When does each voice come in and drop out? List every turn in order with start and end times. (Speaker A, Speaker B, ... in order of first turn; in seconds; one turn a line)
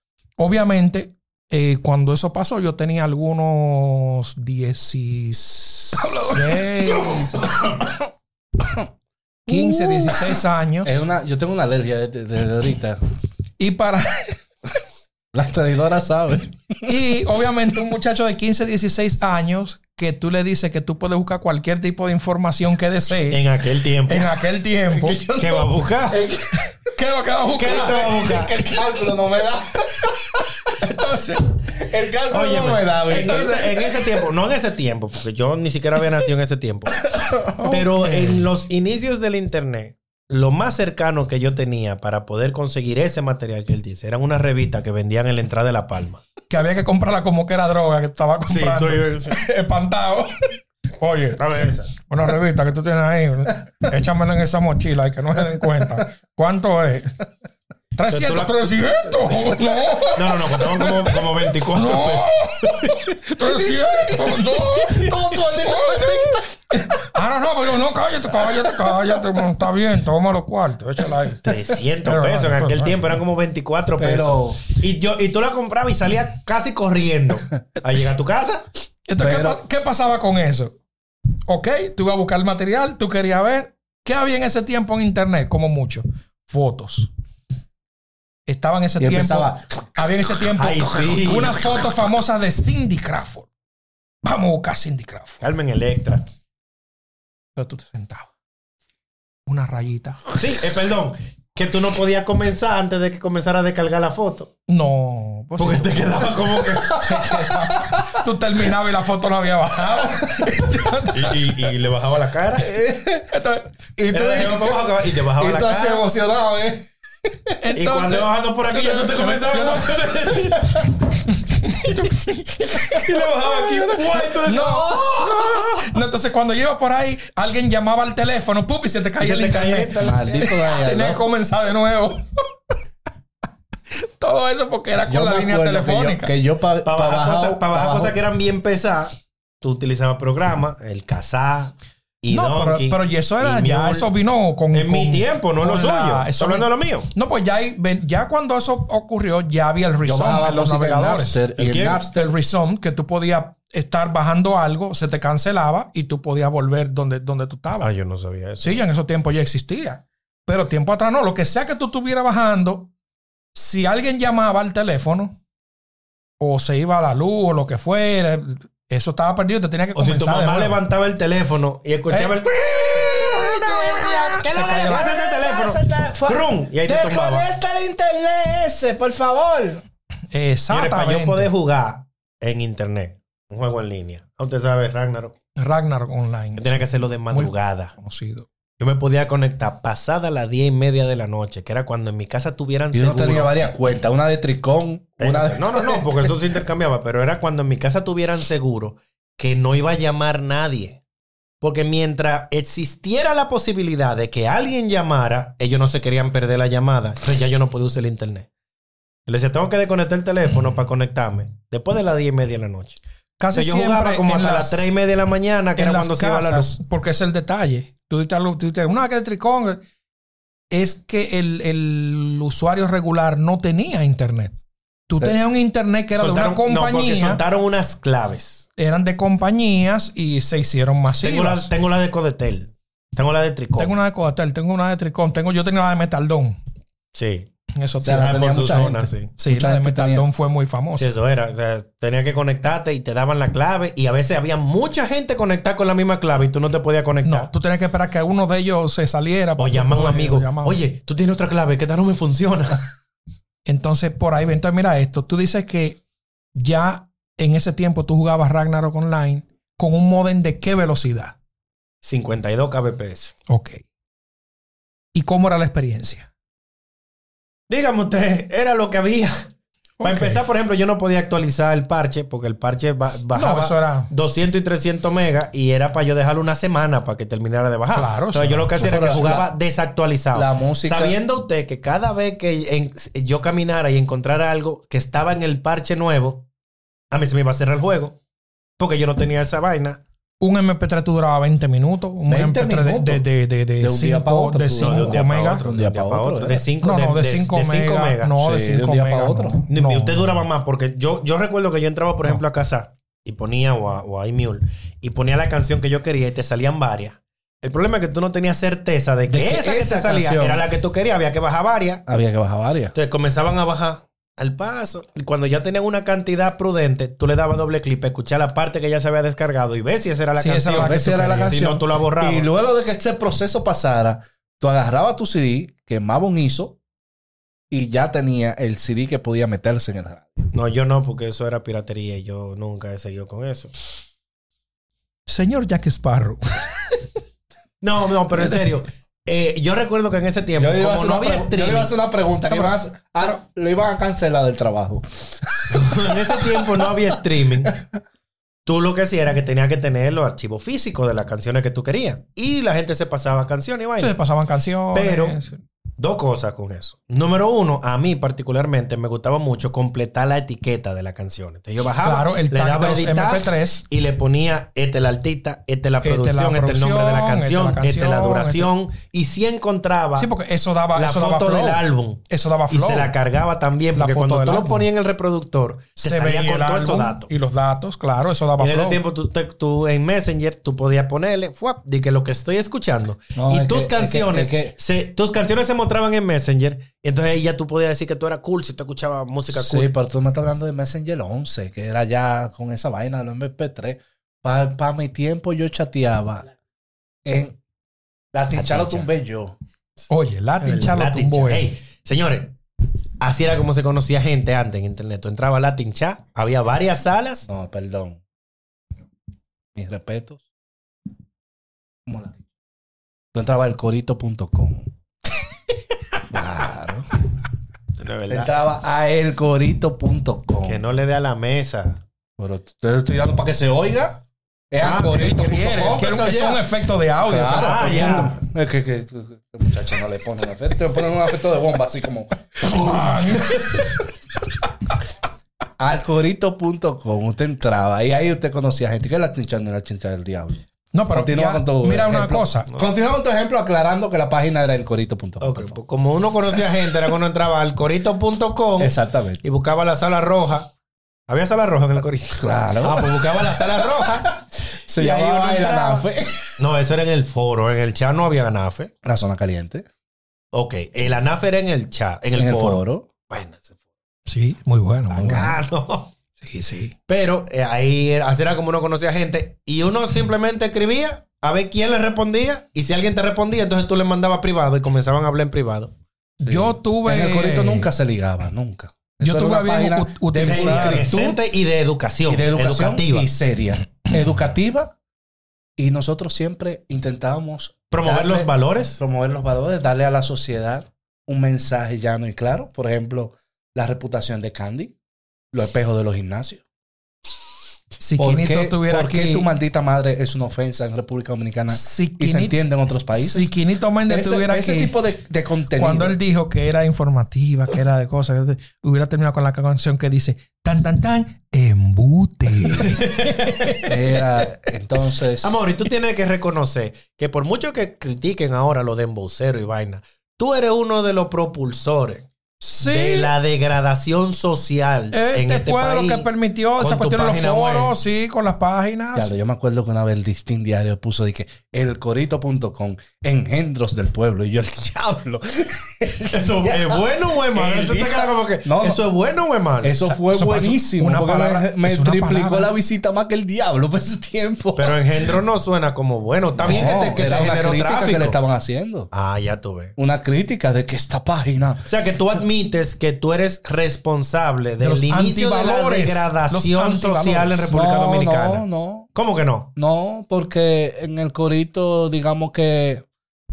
Speaker A: 0.4-7.7
Speaker B: 6.0-7.9
Speaker B: 8.6-8.9
Speaker A: 9.5-11.0
Speaker B: 9.5-13.0
Speaker A: 13.6-14.4
Speaker B: 15.3-16.9
Speaker A: 16.8-23.4
Speaker C: 23.3-24.3
Speaker A: 24.1-25.2
Speaker B: 24.9-26.7
Speaker C: 25.3-26.3
Speaker A: 26.9-28.3
Speaker C: 27.5-28.5
Speaker B: 27.9-30.5
Speaker A: 30.8-31.5
Speaker B: 31.7-33.9
Speaker C: 32.3-37.0
Speaker A: 33.2-33.6
Speaker B: 37.1-37.5
Speaker A: 37.5-38.4
Speaker C: 37.6-46.2
Speaker A: 46.5-57.2
Speaker C: 48.5-49.4
Speaker C: 51.4-51.9
Speaker A: 58.0-73.2
Speaker C: 58.1-58.5
Speaker C: 60.1-63.0
Speaker B: 63.4-66.9
Speaker B: 68.3-69.2
Speaker C: 71.4-78.6
Speaker B: 74.0-74.6
Speaker A: 79.1-80.8
Speaker B: 79.2-79.6
Speaker A: 81.5-87.1
Speaker A: 88.5-93.5
Speaker B: 89.0-90.0
Speaker C: 90.6-91.8
Speaker A: 94.2-95.4
Speaker C: 95.4-96.2
Speaker A: 97.5-98.3
Speaker A: 99.5-100.4
Speaker C: 100.3-104.5
Speaker A: 104.7-106.4
Speaker C: 105.6-107.1
Speaker B: 106.9-108.2
Speaker A: 107.0-111.7
Speaker B: 109.9-110.6
Speaker C: 111.1-112.7
Speaker B: 112.6-113.3
Speaker A: 113.3-113.7
Speaker B: 114.0-117.6
Speaker C: 114.1-116.1
Speaker A: 117.6-120.6
Speaker C: 117.8-120.9
Speaker A: 121.2-132.3
Speaker C: 123.0-124.9
Speaker B: 123.5-125.8
Speaker C: 129.2-130.6
Speaker B: 130.0-131.2
Speaker A: 134.0-136.3
Speaker B: 135.1-138.2
Speaker C: 136.8-144.1
Speaker A: 142.3-151.4
Speaker C: 144.7-147.1
Speaker B: 150.0-152.3
Speaker C: 151.6-152.0
Speaker A: 152.1-157.9
Speaker C: 157.8-158.8
Speaker A: 158.6-162.9
Speaker A: 163.5-165.4
Speaker A: 166.4-170.8
Speaker C: 169.9-177.5
Speaker B: 172.7-179.8
Speaker A: 174.4-175.1
Speaker A: 180.3-181.5
Speaker C: 180.7-185.3
Speaker A: 185.6-188.5
Speaker C: 186.6-187.9
Speaker C: 188.8-193.6
Speaker B: 192.9-196.3
Speaker C: 195.2-201.0
Speaker C: 201.6-208.5
Speaker C: 209.3-213.0
Speaker A: 213.4-214.9
Speaker C: 213.5-216.7
Speaker A: 215.8-219.8
Speaker A: 220.7-224.5
Speaker A: 225.1-227.4
Speaker C: 226.2-228.7
Speaker A: 228.8-231.7
Speaker C: 231.1-233.9
Speaker A: 233.8-236.6
Speaker C: 237.1-237.5
Speaker A: 237.8-238.5
Speaker B: 238.0-240.2
Speaker C: 238.1-239.3
Speaker A: 239.4-241.1
Speaker C: 241.0-247.5
Speaker A: 247.2-250.8
Speaker C: 249.6-252.8
Speaker A: 253.7-256.0
Speaker A: 256.5-261.3
Speaker C: 262.0-263.3
Speaker A: 263.5-263.8
Speaker A: 265.1-266.3
Speaker C: 267.7-269.5
Speaker A: 270.0-270.4
Speaker C: 270.0-286.4
Speaker A: 273.3-274.1
Speaker A: 277.9-279.2
Speaker B: 278.8-279.5
Speaker B: 280.3-281.2
Speaker C: 287.1-288.2
Speaker C: 288.8-290.0
Speaker A: 290.4-295.6
Speaker B: 292.3-293.2
Speaker B: 293.8-296.6
Speaker C: 294.8-298.3
Speaker A: 296.8-300.4
Speaker B: 298.4-299.6
Speaker C: 299.7-312.0
Speaker B: 309.3-310.6
Speaker B: 312.1-312.9
Speaker C: 312.9-322.5
Speaker A: 320.3-321.6
Speaker B: 320.7-326.8
Speaker B: 327.7-330.5
Speaker C: 330.5-333.7
Speaker A: 335.3-337.0
Speaker C: 337.8-341.9
Speaker B: 340.6-347.9
Speaker A: 342.5-342.8
Speaker C: 345.7-347.7
Speaker C: 348.6-354.1
Speaker A: 354.0-355.6
Speaker C: 354.9-355.4
Speaker C: 356.0-370.3
Speaker A: 362.0-363.8
Speaker A: 366.0-368.7
Speaker A: 370.2-373.1
Speaker C: 370.9-377.3
Speaker A: 373.9-374.8
Speaker A: 376.0-379.0
Speaker C: 378.6-389.9
Speaker B: 383.3-384.7
Speaker B: 389.5-396.5
Speaker B: 397.2-397.6
Speaker B: 398.3-399.5
Speaker C: 398.5-399.1
Speaker A: 400.1-401.7
Speaker C: 400.6-402.6
Speaker C: 403.2-407.5
Speaker B: 407.5-408.2
Speaker B: 409.7-410.4
Speaker B: 412.1-412.4
Speaker B: 413.3-414.9
Speaker B: 416.3-417.1
Speaker C: 418.0-418.6
Speaker B: 418.3-420.8
Speaker C: 420.6-422.0
Speaker B: 422.4-426.7
Speaker C: 424.8-425.9
Speaker A: 424.9-428.3
Speaker B: 427.2-433.8
Speaker C: 427.5-428.4
Speaker A: 432.6-434.1
Speaker B: 435.8-445.8
Speaker A: 440.9-442.7
Speaker C: 445.4-450.7
Speaker B: 448.8-449.4
Speaker C: 451.3-454.4
Speaker B: 452.4-456.6
Speaker C: 454.9-458.9
Speaker B: 459.0-459.9
Speaker C: 460.5-463.8
Speaker B: 462.4-463.1
Speaker A: 464.2-465.6
Speaker C: 465.1-466.1
Speaker B: 465.2-465.5
Speaker A: 466.4-466.9
Speaker C: 467.1-475.9
Speaker A: 476.4-477.9
Speaker B: 476.4-481.4
Speaker A: 479.2-481.1
Speaker C: 480.3-483.3
Speaker B: 482.2-484.9
Speaker B: 485.8-494.9
Speaker C: 487.9-489.0
Speaker B: 495.5-496.6
Speaker A: 498.0-499.5
Speaker B: 498.2-503.5
Speaker A: 501.7-502.6
Speaker A: 503.1-504.9
Speaker B: 504.1-506.2
Speaker A: 505.8-514.5
Speaker C: 512.9-513.8
Speaker B: 513.9-515.6
Speaker C: 515.4-522.3
Speaker A: 522.6-523.3
Speaker C: 522.8-526.3
Speaker A: 525.1-529.3
Speaker C: 526.8-527.9
Speaker B: 529.1-539.0
Speaker C: 536.2-540.0
Speaker B: 539.8-545.4
Speaker A: 540.0-542.7
Speaker C: 544.8-548.4
Speaker B: 546.6-549.1
Speaker A: 546.7-547.5
Speaker C: 549.1-550.0
Speaker B: 550.0-551.9
Speaker C: 551.9-559.7
Speaker A: 554.8-557.7
Speaker B: 557.7-559.1
Speaker B: 559.8-563.0